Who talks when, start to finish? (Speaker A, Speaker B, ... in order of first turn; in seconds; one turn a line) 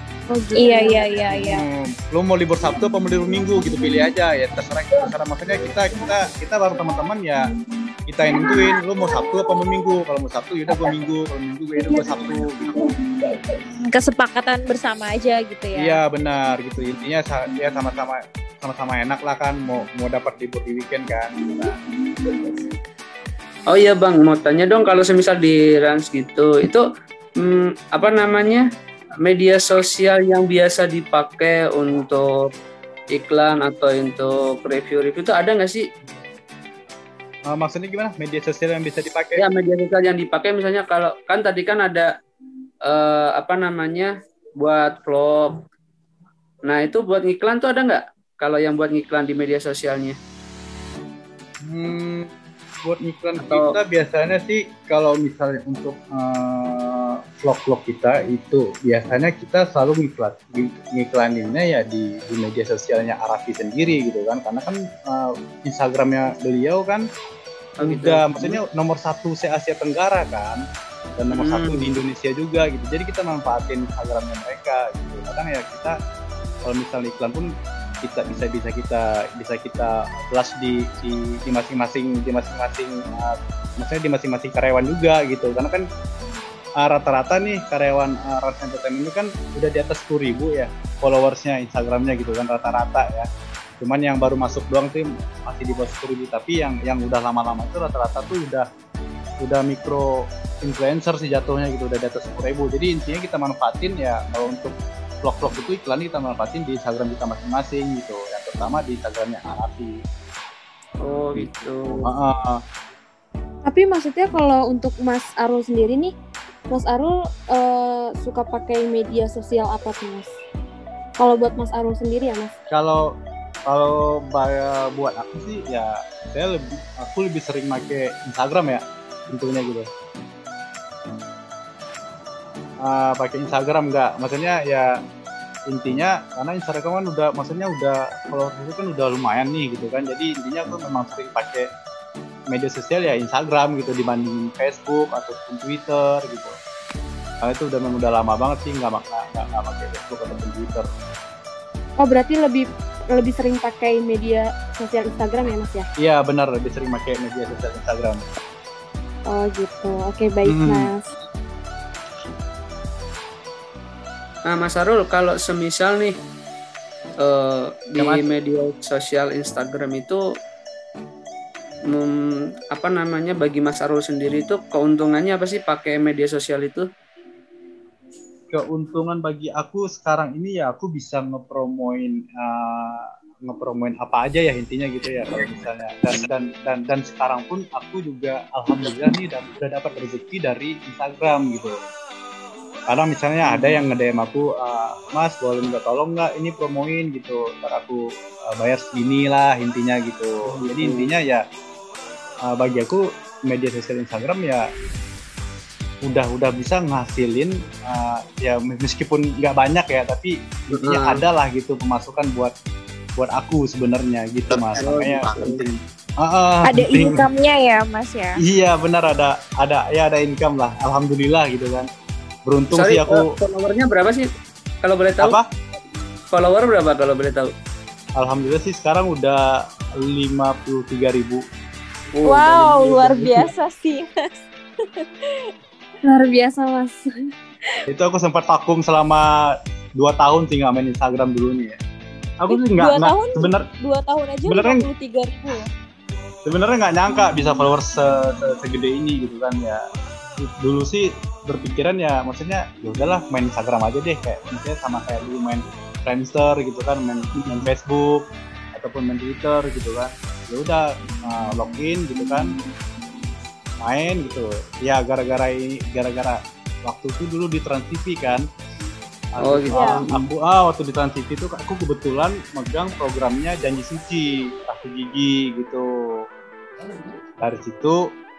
Speaker A: 0.3-1.4
Speaker B: 0.6-1.7
Speaker C: 1.4-7.5
Speaker C: 8.1-12.8
Speaker B: 8.4-9.3
Speaker B: 11.8-12.5
Speaker B: 13.7-16.0
Speaker C: 15.8-21.7
Speaker D: 23.7-26.8
Speaker D: 27.4-28.6
Speaker D: 29.2-32.5
Speaker D: 33.1-35.9
Speaker C: 37.5-39.4
Speaker D: 39.4-42.1
Speaker D: 42.9-45.6
Speaker D: 46.7-50.2
Speaker C: 51.6-67.0
Speaker D: 53.4-53.8
Speaker D: 67.8-68.6
Speaker C: 67.8-70.6
Speaker C: 71.2-76.0
Speaker D: 71.3-71.9
Speaker C: 76.7-77.5
Speaker C: 78.0-85.9
Speaker C: 86.8-93.3
Speaker C: 93.8-98.7
Speaker C: 99.4-110.0
Speaker D: 111.0-112.0
Speaker C: 112.0-112.6
Speaker A: 113.7-116.1
Speaker A: 116.7-120.4
Speaker A: 121.2-122.5
Speaker C: 122.7-123.1
Speaker C: 123.7-129.9
Speaker C: 132.8-134.9
Speaker C: 135.7-141.7
Speaker C: 142.5-146.6
Speaker C: 147.4-150.9
Speaker A: 152.0-155.9
Speaker C: 156.0-158.2
Speaker A: 159.3-161.1
Speaker C: 160.4-160.9
Speaker D: 164.5-166.2
Speaker D: 167.2-170.2
Speaker C: 168.0-168.3
Speaker D: 171.9-176.9
Speaker C: 178.5-191.8
Speaker C: 192.9-201.4
Speaker D: 193.4-193.8
Speaker D: 200.5-201.1
Speaker C: 202.5-204.7
Speaker C: 206.1-212.5
Speaker D: 210.7-211.2
Speaker C: 213.2-215.7
Speaker D: 214.5-215.7
Speaker C: 216.2-217.3
Speaker B: 216.6-218.4
Speaker C: 218.4-221.9
Speaker C: 222.5-223.3
Speaker D: 222.8-224.3
Speaker D: 224.8-225.4
Speaker C: 225.2-225.5
Speaker D: 226.3-227.5
Speaker C: 228.2-229.4
Speaker C: 230.0-231.4
Speaker D: 232.2-233.5
Speaker B: 232.2-234.2
Speaker B: 234.8-235.5
Speaker A: 236.0-237.1
Speaker C: 237.9-239.3
Speaker C: 240.0-241.8
Speaker C: 242.4-243.7
Speaker B: 242.5-245.7
Speaker C: 244.4-244.9
Speaker C: 246.5-249.8
Speaker C: 250.4-262.5
Speaker D: 257.4-257.7
Speaker C: 263.8-268.4
Speaker C: 269.4-275.9
Speaker D: 269.4-270.3
Speaker B: 269.7-270.0
Speaker C: 277.4-278.0